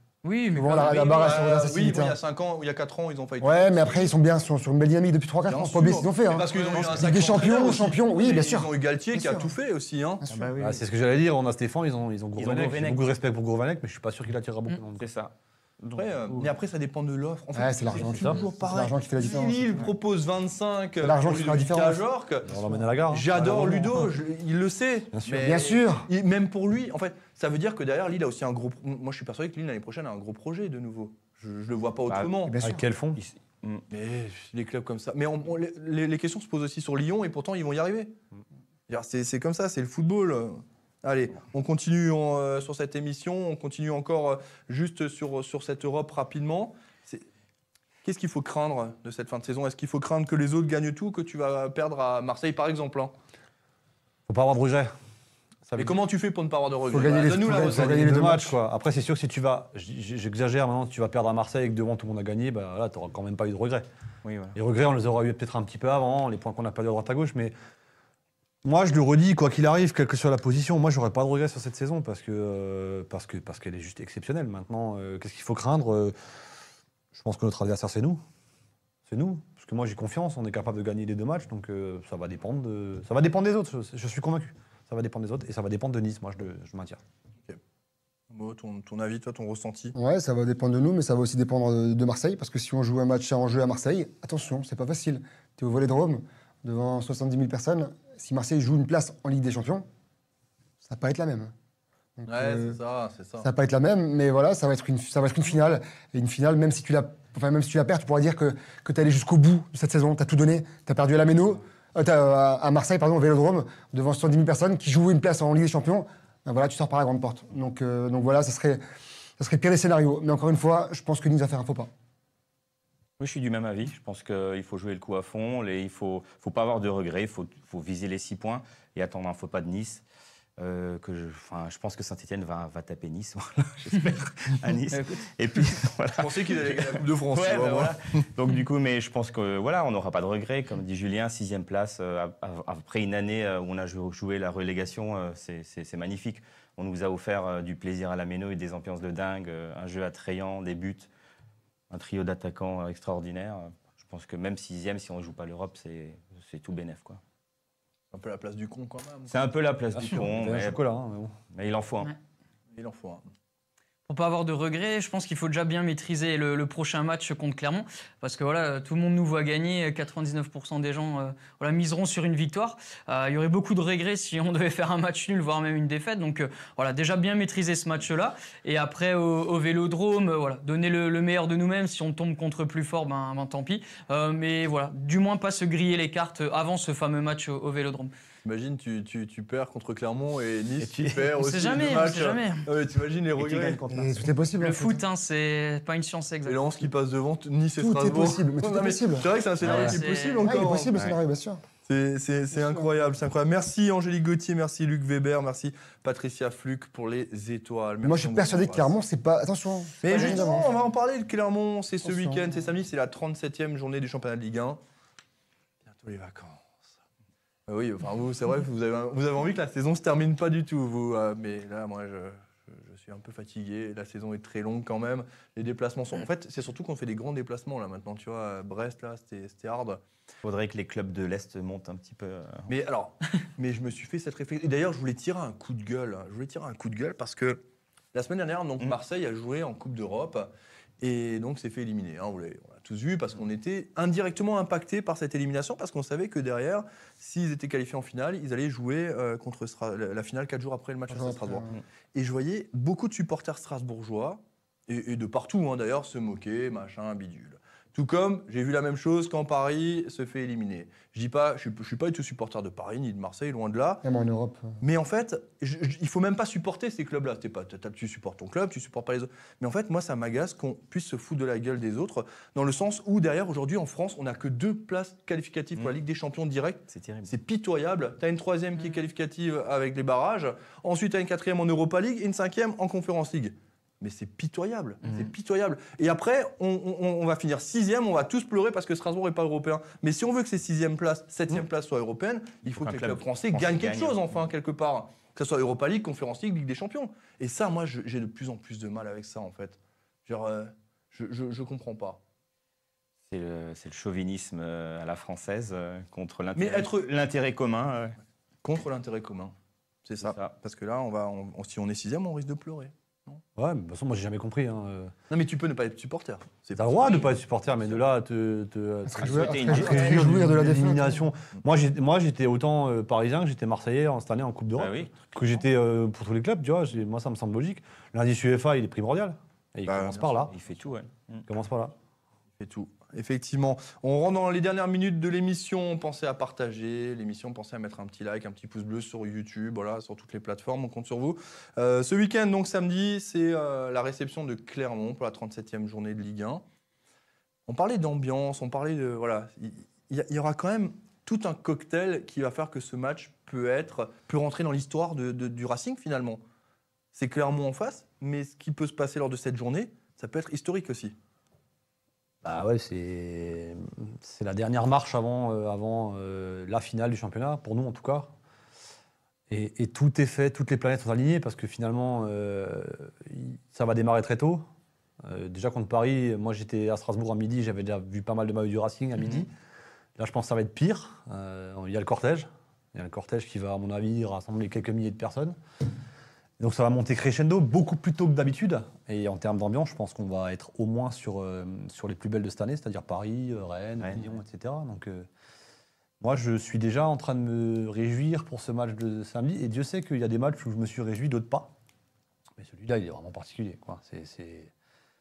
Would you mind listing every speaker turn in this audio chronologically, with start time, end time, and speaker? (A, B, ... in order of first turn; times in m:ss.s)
0:00.2-0:01.0 A
0:00.6-0:02.2 B
0:00.7-0:04.1 C
0:03.4-0:09.5 B
0:05.5-0:10.2 C
0:06.5-0:07.0 A
0:10.2-0:10.5 B
0:10.3-0:10.8 D
0:10.6-0:15.0 E
0:12.4-0:13.0 D
0:15.0-0:16.5 D
0:16.0-0:32.6 C
0:17.6-0:19.8 B
0:18.0-0:18.4 E
0:21.0-0:22.0 B
0:22.4-0:24.1 E
0:25.1-0:25.6 E
0:25.3-0:26.1 B
0:32.1-0:32.4 D
0:32.4-0:32.8 B
0:32.6-0:33.2 E
0:33.2-0:33.8 D
0:33.9-0:38.1 C
0:38.9-0:47.2 C
0:48.0-0:53.1 C
0:54.3-0:54.9 E
0:55.7-0:55.9 E
0:55.8-0:58.3 C
0:56.9-0:58.6 B
0:57.5-1:03.9 E
1:04.2-1:04.6 D
1:04.5-1:07.5 E
1:08.6-1:16.1 E
1:17.1-1:18.2 E
1:19.1-1:27.0 E
1:28.3-1:30.0 C
1:30.0-1:39.9 B
1:40.8-1:41.5 B
1:42.2-1:42.8 B
1:42.3-1:43.5 C
1:43.4-1:58.8 B
1:59.4-2:01.9 B
2:03.2-2:10.0 D
2:10.6-2:31.1 D
2:14.9-2:15.2 A
2:16.2-2:18.0 C
2:31.9-2:37.2 D
2:38.1-2:39.4 C
2:39.3-2:40.8 D
2:39.9-2:41.3 E
2:41.5-2:42.1 D
2:42.7-2:43.2 C
2:44.1-3:08.1 A
3:08.4-3:13.8 C
3:10.8-3:11.4 E
3:11.4-3:12.7 A
3:13.4-3:14.2 E
3:13.5-3:13.8 D
3:13.9-3:15.0 B
3:14.6-3:16.7 A
3:16.4-3:21.0 C
3:17.8-3:21.6 B
3:19.6-3:20.5 A
3:21.8-3:29.0 C
3:28.0-3:30.7 B
3:30.0-3:34.8 C
3:32.0-3:32.5 B
3:35.9-3:36.7 C
3:37.7-3:50.0 C
3:50.4-3:52.7 D
3:52.7-3:57.6 C
3:58.1-4:24.0 C
4:11.1-4:11.8 B
4:24.0-4:24.8 B
4:24.8-5:02.2 C
4:36.9-4:37.3 D
4:52.7-4:54.3 D
5:03.3-5:08.2 D
5:06.6-5:07.1 C
5:08.6-5:09.5 C
5:10.0-5:13.4 C
5:10.2-5:10.6 D
5:13.6-5:15.1 E
5:15.3-5:17.3 C
5:16.8-5:30.5 E
5:19.1-5:21.2 B
5:19.2-5:20.4 D
5:24.8-5:25.3 D
5:29.9-5:30.5 C
5:30.5-5:31.5 D
5:31.5-5:32.0 E
5:32.6-5:46.6 C
5:47.7-5:56.4 C
5:57.1-6:01.2 C
6:02.4-6:08.3 E
6:09.5-6:14.7 E
6:15.2-6:19.5 E
6:20.2-6:25.6 E
6:26.6-6:35.3 E
6:34.0-6:34.2 D
6:36.2-6:41.7 E
6:42.6-6:44.7 E